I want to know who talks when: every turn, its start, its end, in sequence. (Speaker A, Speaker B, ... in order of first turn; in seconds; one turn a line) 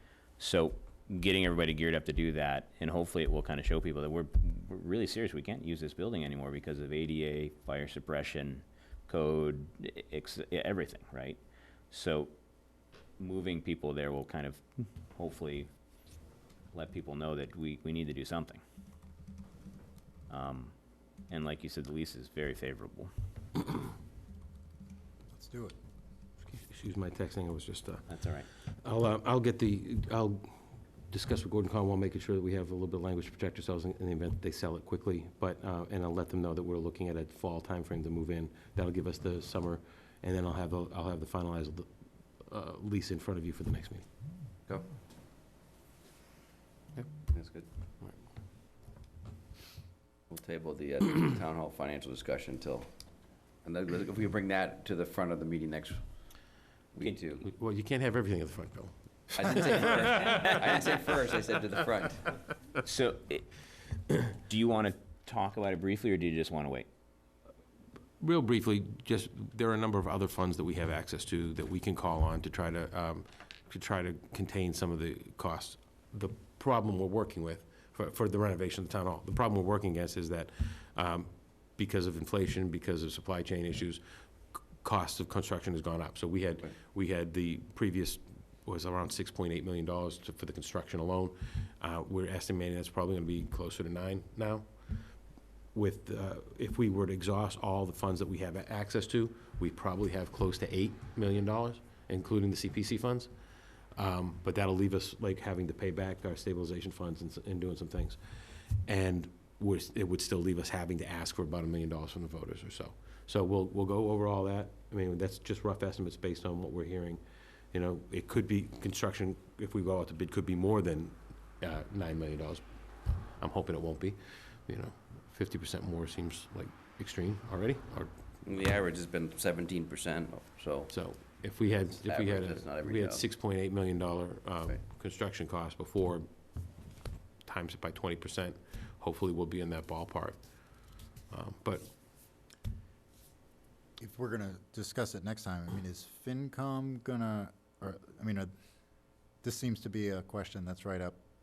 Speaker A: 0.4-11.4
Speaker A: 11.9-12.3
Speaker A: 13.2-15.7
Speaker A: 16.7-18.6
Speaker A: 20.3-20.7
Speaker A: 21.3-23.1
Speaker B: 25.3-25.8
Speaker C: 26.4-28.1
Speaker A: 28.1-28.5
Speaker C: 28.6-30.6
Speaker C: 31.1-44.0
Speaker D: 47.3-47.7
Speaker D: 50.3-53.0
Speaker D: 53.6-57.5
Speaker C: 57.4-60.0
Speaker D: 59.3-62.4
Speaker A: 62.8-63.5
Speaker A: 64.2-66.9
Speaker C: 68.2-95.2
Speaker C: 95.7-103.3
Speaker C: 103.9-117.2
Speaker C: 117.7-128.1
Speaker D: 128.4-130.9
Speaker C: 130.9-136.3
Speaker D: 131.9-133.3
Speaker C: 137.4-141.9
Speaker B: 144.0-148.5
Speaker B: 149.4-151.2